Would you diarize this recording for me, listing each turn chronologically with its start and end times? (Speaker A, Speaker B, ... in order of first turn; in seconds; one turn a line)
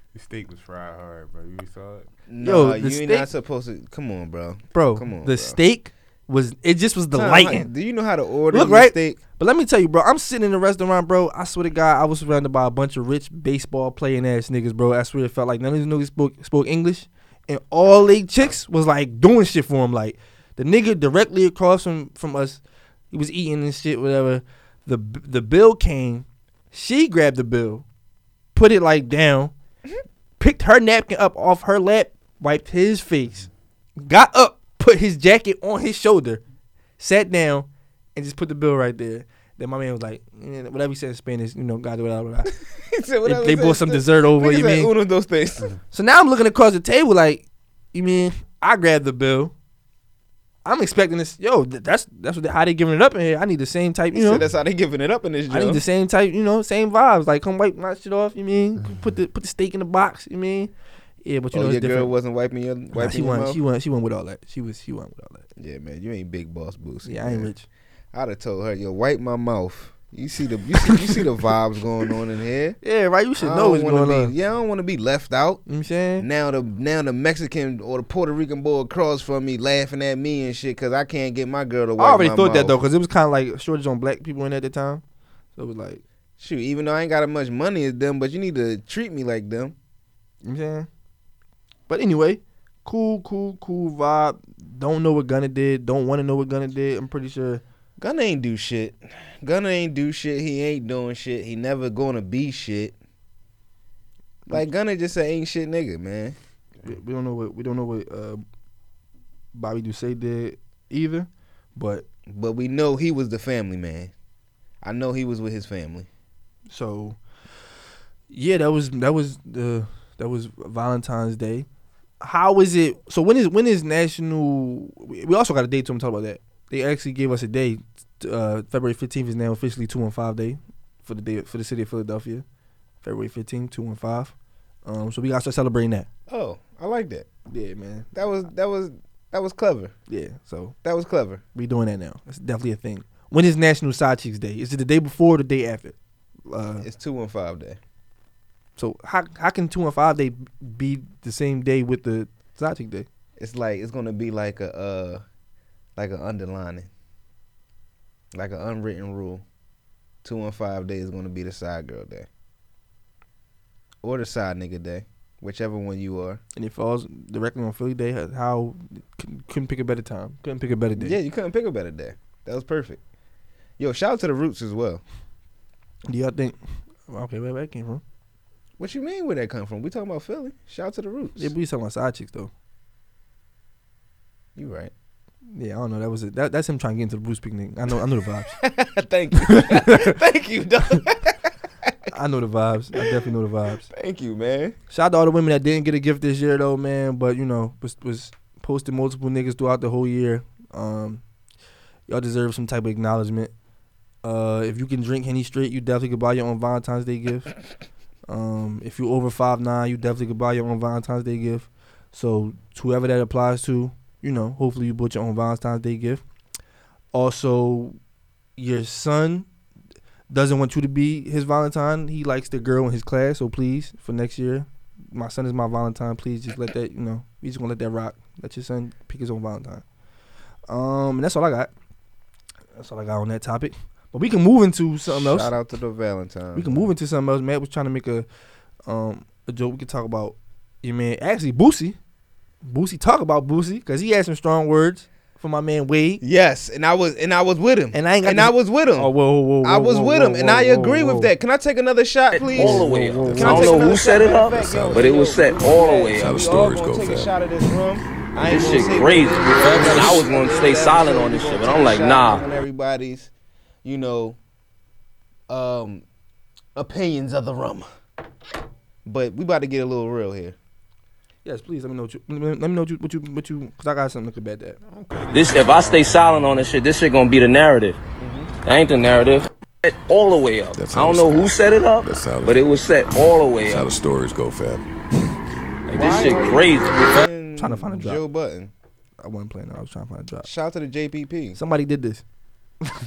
Speaker A: 0.1-2.1
Speaker B: 2.3-5.6
Speaker C: 2.4-3.3
Speaker C: 4.7-7.7
Speaker B: 7.1-9.2
Speaker C: 8.5-22.6
Speaker C: 23.1-27.8
Speaker C: 28.6-29.5
Speaker C: 30.4-33.5
Speaker C: 34.0-36.4
Speaker C: 37.0-42.5
Speaker B: 42.9-45.7
Speaker C: 43.2-44.9
Speaker C: 45.9-49.5
Speaker C: 50.6-54.5
Speaker B: 54.1-55.8
Speaker C: 55.5-60.7
Speaker C: 61.2-62.1
Speaker B: 61.5-63.6
Speaker C: 62.9-65.5
Speaker B: 65.6-67.5
Speaker C: 67.0-67.7
Speaker B: 68.1-72.8
Speaker C: 72.8-74.3
Speaker B: 73.4-75.6
Speaker C: 75.7-76.3
Speaker B: 76.2-82.8
Speaker C: 82.0-85.0
Speaker C: 85.6-86.0
Speaker B: 86.4-89.8
Speaker C: 90.4-90.9
Speaker C: 91.9-97.6
Speaker B: 98.0-103.0
Speaker B: 104.5-106.4
Speaker C: 106.9-108.4
Speaker C: 109.5-112.0
Speaker B: 112.3-114.1
Speaker B: 114.8-116.1
Speaker C: 116.7-117.2
Speaker C: 118.3-121.7
Speaker C: 122.2-132.4
Speaker C: 133.0-134.3
Speaker C: 134.9-136.1
Speaker B: 136.3-137.3
Speaker C: 137.5-138.1
Speaker B: 138.1-139.9
Speaker C: 140.1-140.8
Speaker B: 140.8-141.4
Speaker C: 141.6-145.9
Speaker C: 146.5-146.9
Speaker B: 146.8-147.8
Speaker C: 148.8-153.1
Speaker B: 153.4-155.2
Speaker B: 156.0-156.9
Speaker B: 158.3-159.4
Speaker B: 160.2-162.3
Speaker B: 164.0-166.4
Speaker C: 166.6-171.2
Speaker B: 171.0-173.0
Speaker B: 173.8-175.0
Speaker C: 176.1-176.6
Speaker C: 177.1-178.0
Speaker B: 178.8-181.5
Speaker C: 181.4-182.5
Speaker B: 184.6-184.9
Speaker C: 185.5-188.6
Speaker B: 188.6-191.3
Speaker C: 189.4-190.2
Speaker C: 192.1-193.9
Speaker B: 193.9-194.8
Speaker C: 194.9-201.2
Speaker C: 202.1-203.5
Speaker C: 204.2-207.5
Speaker C: 208.3-216.2
Speaker C: 217.1-218.0
Speaker C: 218.6-219.5
Speaker C: 220.3-229.8
Speaker C: 230.7-231.7
Speaker C: 232.8-235.5
Speaker B: 235.1-236.9
Speaker C: 236.6-238.3
Speaker C: 238.9-242.0
Speaker C: 242.6-246.2
Speaker B: 246.2-263.3
Speaker C: 247.9-251.3
Speaker D: 252.3-256.4
Speaker C: 252.5-253.9
Speaker E: 253.2-253.6
Speaker E: 254.6-255.0
Speaker E: 256.2-257.3
Speaker D: 258.4-262.4
Speaker B: 263.8-264.4
Speaker B: 265.5-266.0
Speaker B: 266.8-267.9
Speaker B: 269.1-270.6
Speaker C: 271.4-274.8
Speaker A: 274.9-276.7
Speaker D: 275.3-278.0
Speaker B: 278.2-278.5
Speaker D: 278.6-283.9
Speaker E: 280.7-282.9
Speaker E: 283.6-284.9
Speaker D: 285.9-287.3
Speaker B: 285.9-288.7
Speaker C: 287.6-288.2
Speaker C: 289.2-290.5
Speaker B: 290.4-291.6
Speaker C: 291.6-292.2